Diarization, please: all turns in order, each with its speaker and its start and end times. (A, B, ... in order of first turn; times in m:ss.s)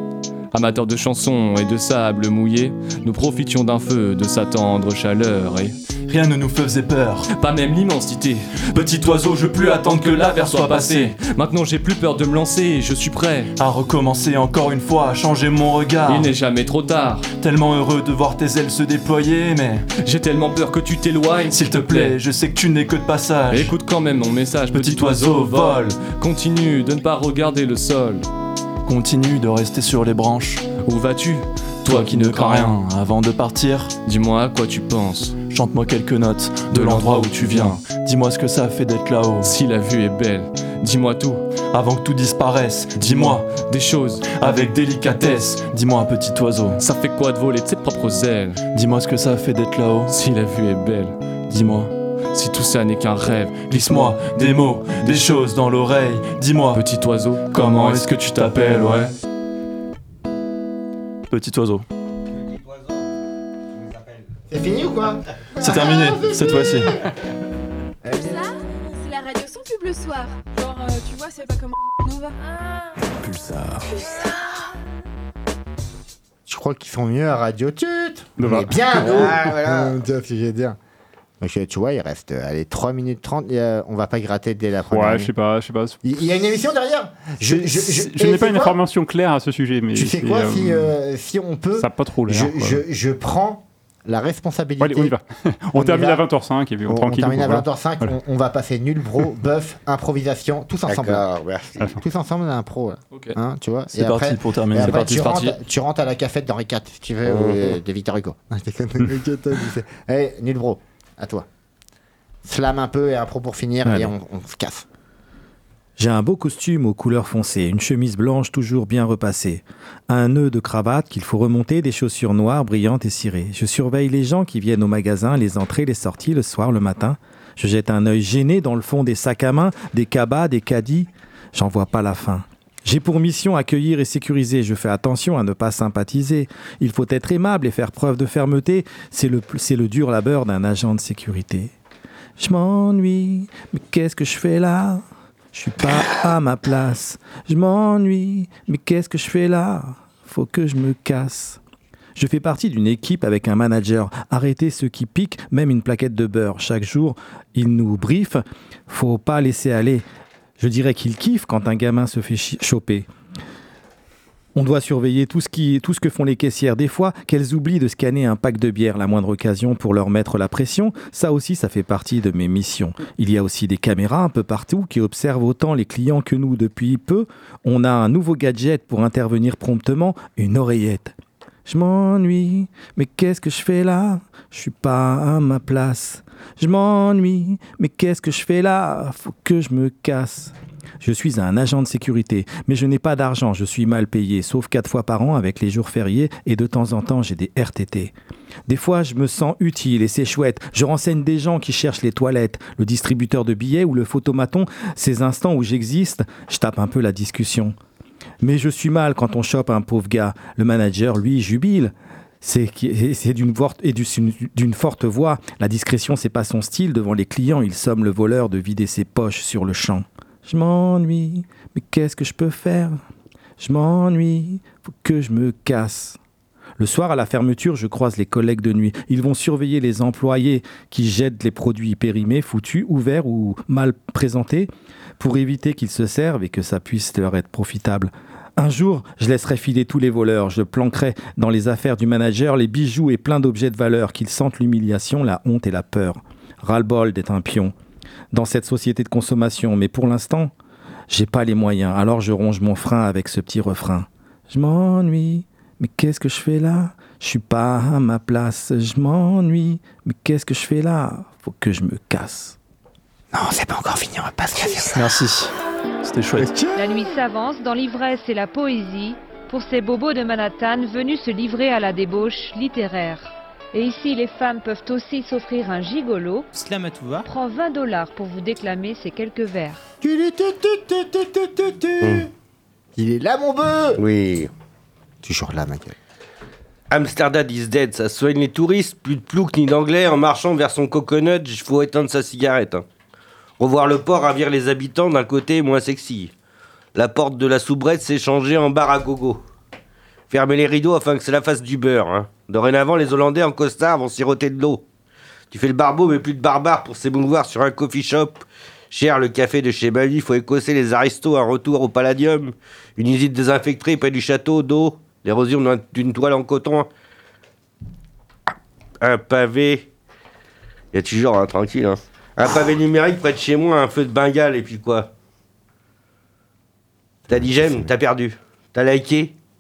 0:00.5-0:05.8 A
0:06.1-0:07.3 B
0:07.4-0:08.9 A
0:08.7-0:11.2 B
0:09.5-0:13.5 A
0:13.6-0:16.3 B
0:16.1-0:17.3 A
0:17.4-0:19.9 B
0:20.0-0:22.2 A
0:21.5-0:23.7 B
0:23.5-0:28.3 A
0:24.7-0:26.0 B
0:28.9-0:30.6 B
0:30.8-0:32.8 A
0:31.9-0:33.9 B
0:34.1-0:35.4 A
0:35.5-0:39.5 B
0:36.7-0:37.8 A
0:39.4-0:41.4 A
0:41.7-0:43.5 B
0:43.0-0:45.3 A
0:44.4-0:46.8 B
0:46.8-0:48.6 A
0:48.7-0:50.2 B
0:50.1-0:51.2 A
0:51.5-0:51.9 B
0:52.3-0:55.5 A
0:53.7-0:56.8 B
0:56.8-0:59.1 A
0:57.5-0:59.1 B
1:01.3-1:01.9 B
1:02.3-1:03.2 C
1:03.7-1:04.3 C
1:04.5-1:07.0 D
1:05.6-1:07.0 B
1:08.0-1:08.5 D
1:08.2-1:12.5 E
1:13.2-1:13.8 F
1:13.9-1:14.4 E
1:16.5-1:20.8 D
1:18.4-1:18.9 G
1:18.9-1:20.0 C
1:21.4-1:25.3 D
1:24.9-1:26.0 G
1:26.0-1:28.8 D
1:27.4-1:30.9 G
1:30.0-1:35.1 D
1:31.8-1:32.8 G
1:34.8-1:38.1 G
1:35.7-1:36.2 D
1:36.9-1:41.3 D
1:40.9-1:41.9 C
1:41.9-1:51.5 D
1:43.9-1:45.1 B
1:44.7-1:45.6 A
1:47.3-1:47.8 C
1:52.4-1:54.9 D
1:53.8-1:54.1 F
1:56.0-2:21.7 F
2:22.4-2:25.0 F
2:25.5-2:31.6 F
2:32.2-2:40.0 F
2:40.6-2:43.1 F
2:44.6-3:01.2 F
3:01.7-3:18.1 F
3:18.7-3:27.8 F
3:28.4-3:43.0 F
3:43.6-3:46.2 F
3:46.8-4:07.7 F
4:08.3-4:10.5 F
4:11.1-4:22.6 F
4:23.3-4:25.2 D
4:24.9-4:26.5 B
4:26.4-4:26.9 D
4:26.8-4:36.5 H
4:37.2-4:39.8 H
4:40.0-4:42.3 D
4:43.0-4:44.0 D
4:44.0-4:44.5 C
4:45.2-4:46.0 D
4:46.9-4:52.8 C
4:53.6-4:56.3 C
4:57.0-4:59.4 C
5:00.3-5:04.8 C
5:05.5-5:08.4 C
5:08.9-5:16.9 C
5:19.0-5:19.9 C
5:20.9-5:25.1 C
5:27.3-5:29.3 C
5:27.3-5:27.9 D